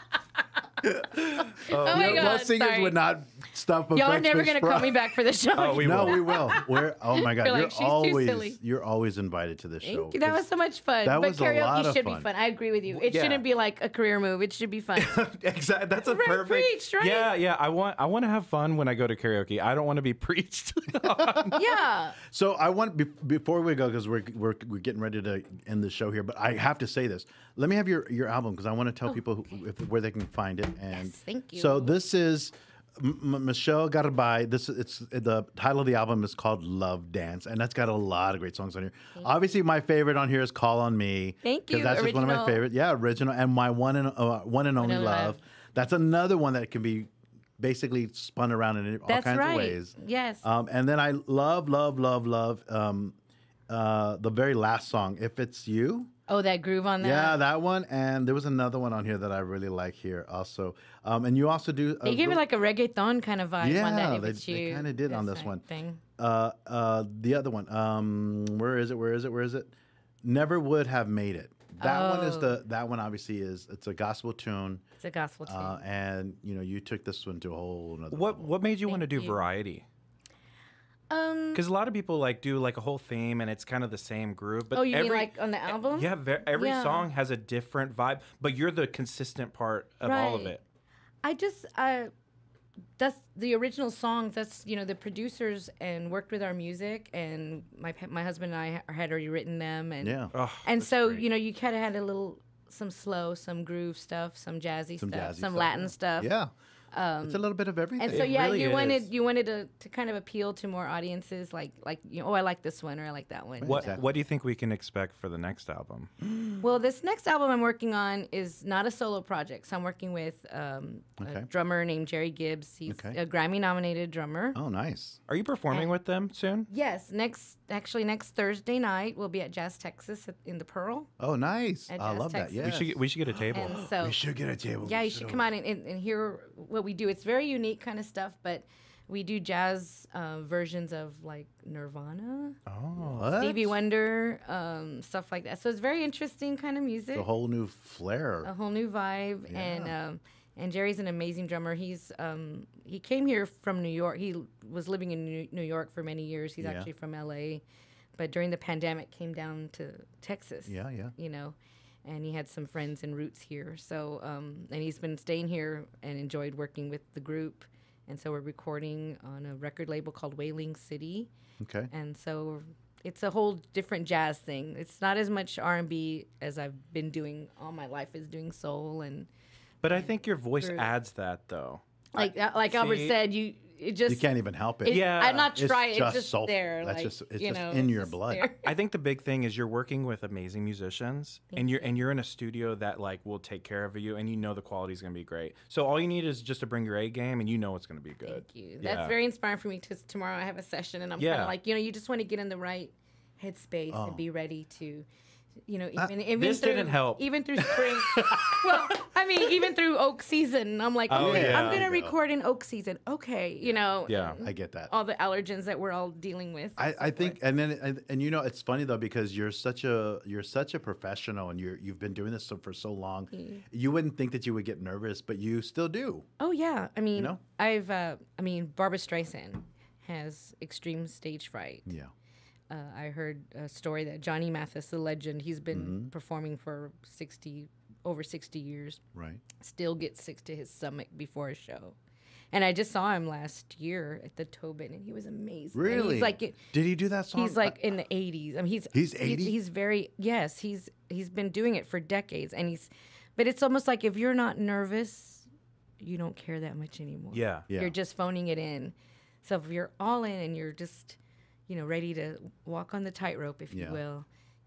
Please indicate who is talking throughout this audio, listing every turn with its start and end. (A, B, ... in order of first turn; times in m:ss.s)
0:00.8-0:05.1 A
0:01.6-0:02.4 B
0:01.7-0:03.0 C
0:03.9-0:08.6 C
0:05.6-0:06.3 B
0:05.8-0:10.4 A
0:09.8-0:15.2 C
0:11.0-0:12.3 A
0:13.0-0:13.4 B
0:15.0-0:21.6 B
0:16.0-0:17.3 C
0:21.0-0:21.6 A
0:21.5-0:22.2 C
0:22.2-0:53.2 A
0:30.9-0:31.9 C
0:41.4-0:42.6 C
0:44.8-0:45.4 C
0:49.1-0:50.4 C
0:53.7-0:56.1 A
0:56.3-0:57.4 C
0:57.0-1:02.4 A
1:02.0-1:06.0 C
1:03.6-1:05.6 A
1:06.2-1:14.8 A
1:11.8-1:12.6 C
1:15.0-1:15.8 C
1:15.4-1:18.5 A
1:18.1-1:19.8 B
1:18.9-1:19.4 C
1:21.1-1:21.6 C
1:21.5-1:30.6 B
1:24.7-1:27.1 C
1:30.0-1:30.6 C
1:31.2-1:32.1 C
1:33.0-1:46.3 C
1:40.0-1:40.3 A
1:40.3-1:41.2 B
1:45.0-1:46.5 A
1:46.9-1:47.4 C
1:47.2-1:48.4 A
1:48.0-1:54.0 C
1:48.1-1:49.1 B
1:53.6-1:54.2 A
1:53.6-1:56.1 B
1:56.2-1:56.6 A
1:56.6-2:04.6 C
2:01.2-2:01.5 A
2:02.9-2:03.2 A
2:04.5-2:05.2 A
2:05.3-2:06.7 B
2:06.7-2:11.1 C
2:11.2-2:15.5 A
2:11.9-2:12.7 C
2:12.6-2:13.8 B
2:13.5-2:14.2 C
2:14.8-2:22.6 C
2:22.7-2:23.4 B
2:23.0-2:23.8 A
2:23.4-2:27.3 C
2:27.1-2:28.5 A
2:28.4-2:37.6 C
2:29.5-2:29.9 A
2:36.6-2:36.9 A
2:38.2-2:51.3 C
2:40.7-2:41.1 A
2:51.6-2:51.9 A
2:51.9-2:59.3 C
2:59.8-3:03.2 B
2:59.9-3:00.9 C
3:02.1-3:04.3 C
3:04.1-3:08.5 A
3:04.8-3:08.7 C
3:04.9-3:05.5 B
3:08.6-3:19.1 B
3:11.5-3:12.0 C
3:18.2-3:25.0 C
3:21.2-3:21.5 B
3:23.9-3:24.2 A
3:25.7-3:37.4 C
3:26.3-3:28.9 B
3:31.1-3:31.8 B
3:31.1-3:32.2 A
3:33.6-3:34.9 A
3:34.1-3:34.4 B
3:36.8-3:46.3 A
3:43.3-3:43.6 C
3:46.4-3:51.9 C
3:47.1-3:47.4 A
3:51.8-3:52.1 A
3:52.7-3:59.0 C
3:55.7-3:56.1 A
3:59.1-3:59.4 A
3:59.6-4:02.0 C
4:02.5-4:06.6 C
4:05.7-4:07.8 A
4:07.4-4:15.5 C
4:08.9-4:09.6 A
4:16.0-4:24.3 C
4:17.3-4:17.7 B
4:17.7-4:17.9 A
4:23.7-4:24.0 A